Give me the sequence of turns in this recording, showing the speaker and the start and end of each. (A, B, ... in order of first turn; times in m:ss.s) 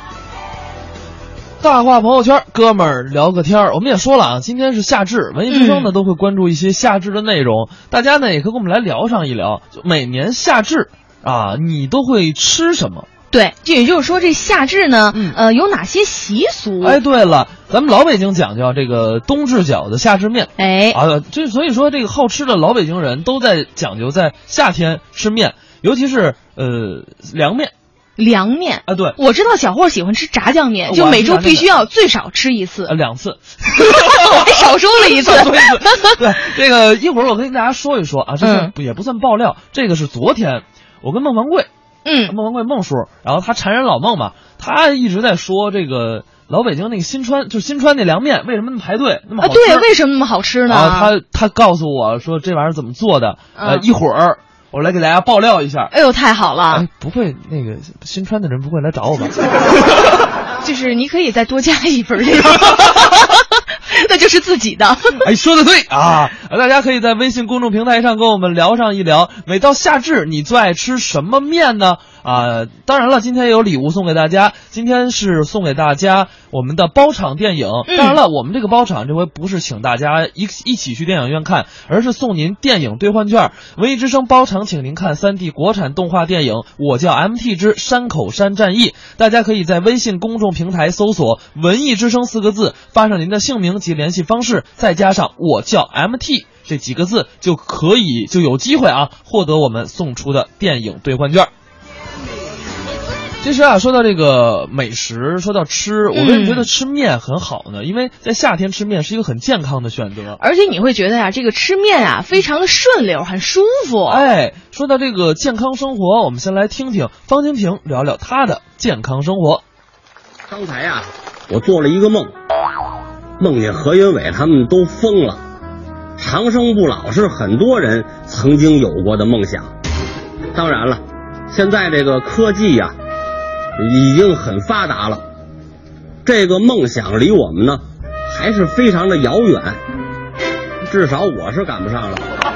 0:01.6-0:13.1 A
0:05.5-0:05.9 B
0:13.3-0:17.0 B
0:15.1-0:15.4 A
0:16.8-0:27.7 A
0:20.6-0:21.0 B
0:28.2-0:32.9 B
0:28.9-0:29.2 A
0:30.8-0:31.8 A
0:32.9-0:41.7 A
0:33.8-0:36.2 B
0:38.4-0:38.7 B
0:42.0-0:42.3 B
0:42.2-0:49.9 A
0:49.4-0:51.1 B
0:50.7-0:55.9 A
0:53.6-0:53.8 B
0:55.9-0:56.8 B
0:56.7-1:00.1 A
1:00.6-1:05.2 B
1:02.4-1:02.7 A
1:05.2-1:41.5 A
1:17.9-1:18.2 B
1:43.4-1:50.4 A
1:46.1-1:46.7 B
1:50.4-1:54.2 B
1:54.1-1:59.6 A
2:00.5-2:02.3 C
2:03.4-2:05.4 C
2:06.2-2:09.7 C
2:10.5-2:12.9 C
2:13.8-2:15.2 C
2:16.2-2:19.8 C
2:20.8-2:22.2 C